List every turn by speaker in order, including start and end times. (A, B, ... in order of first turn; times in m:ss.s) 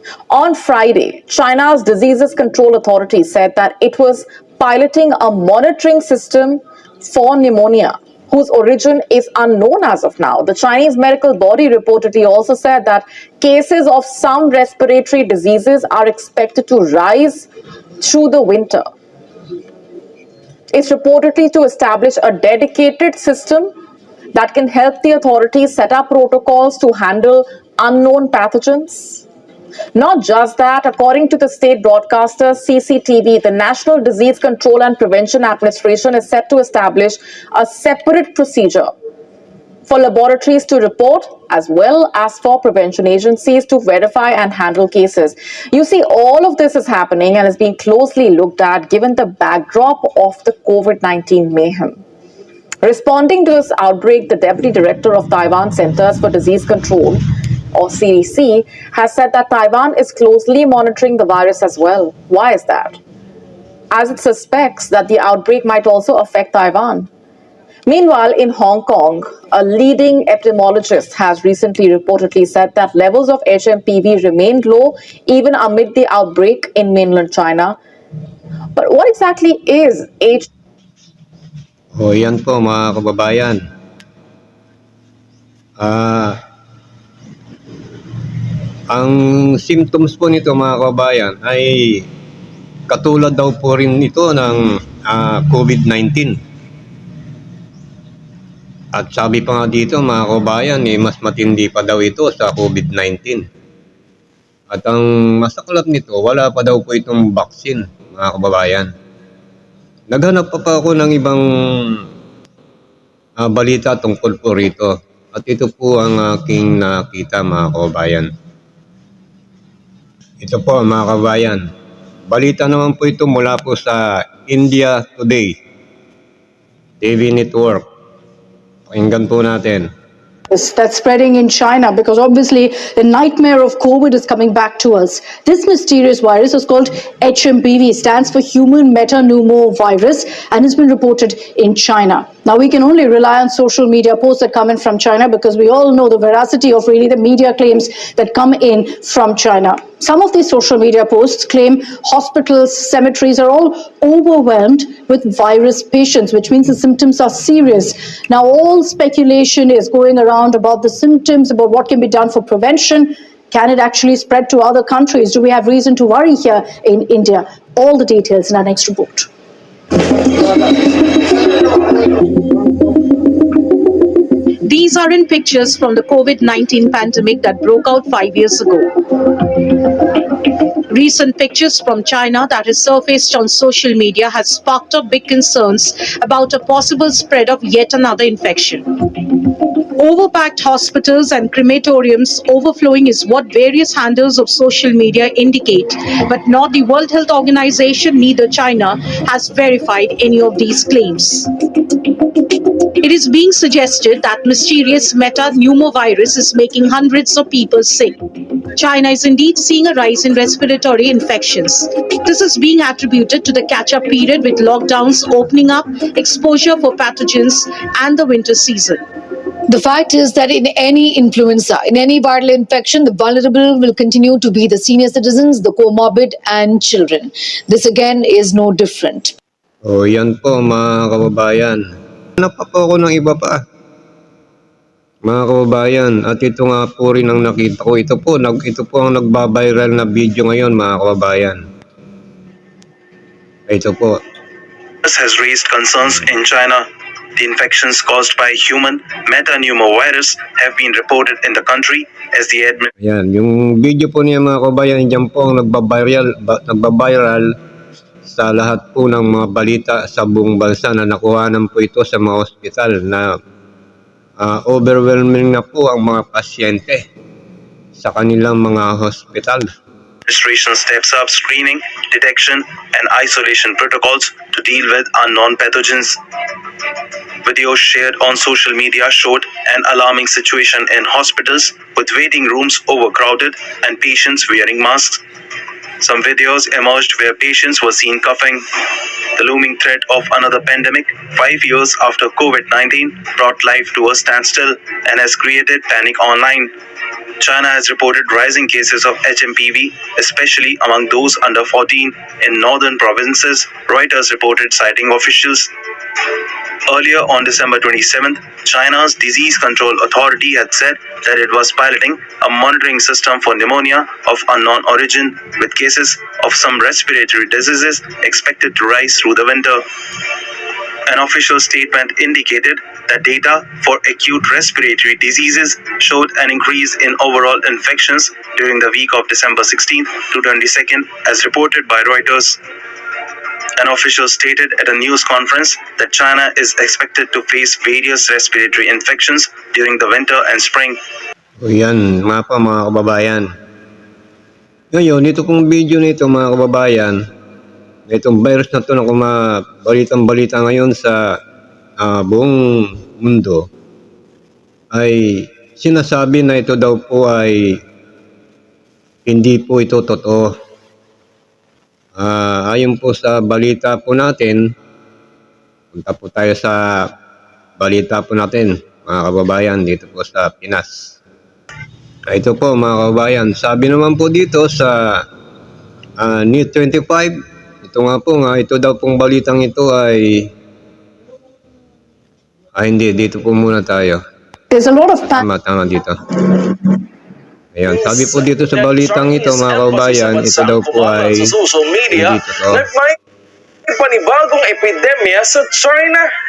0:00.3-0:17.5 A
0:18.0-0:18.9 A
0:20.7-0:23.7 A
0:24.3-0:29.2 A
0:29.9-0:38.9 A
0:39.9-0:52.0 A
0:52.8-1:03.0 A
1:03.9-1:07.1 A
1:07.9-1:17.8 A
1:18.8-1:20.5 A
1:22.0-1:23.6 B
1:25.8-1:26.4 B
1:28.9-1:32.0 B
1:32.9-1:36.4 B
1:39.0-1:43.4 B
1:44.7-1:48.9 B
1:50.1-1:51.4 B
1:53.4-1:58.3 B
2:00.4-2:01.6 B
2:02.3-2:05.6 B
2:07.0-2:07.8 B
2:08.9-2:09.9 B
2:10.5-2:49.3 C
2:54.6-3:39.0 D
3:39.7-3:49.3 E
3:49.9-3:51.8 B
3:52.4-3:53.6 B
3:55.2-4:01.6 B
4:03.7-4:04.2 B
4:05.0-4:06.8 F
4:07.4-4:12.9 F
4:13.0-4:17.5 B
4:18.3-4:23.3 B
4:24.4-4:27.0 B
4:28.0-4:29.6 B
4:30.3-4:36.2 F
4:37.4-4:45.2 F
4:46.0-4:56.7 F
4:57.4-5:06.4 F
5:06.9-5:20.4 F
5:21.1-5:32.6 F
5:33.8-5:41.0 F
5:41.6-5:43.5 B
5:44.9-5:47.2 B
5:48.1-5:51.2 B
5:52.0-5:53.7 B
5:54.9-5:57.6 B
5:59.3-6:00.5 B
6:02.2-6:04.6 B
6:05.9-6:07.0 B
6:07.8-6:11.2 B
6:12.3-6:15.2 B
6:16.2-6:20.5 B
6:22.8-6:24.2 B
6:24.7-6:25.4 C
6:25.3-6:26.5 B
6:27.8-6:31.6 B
6:27.8-6:33.2 G
6:32.1-6:32.9 B
6:33.9-6:36.3 G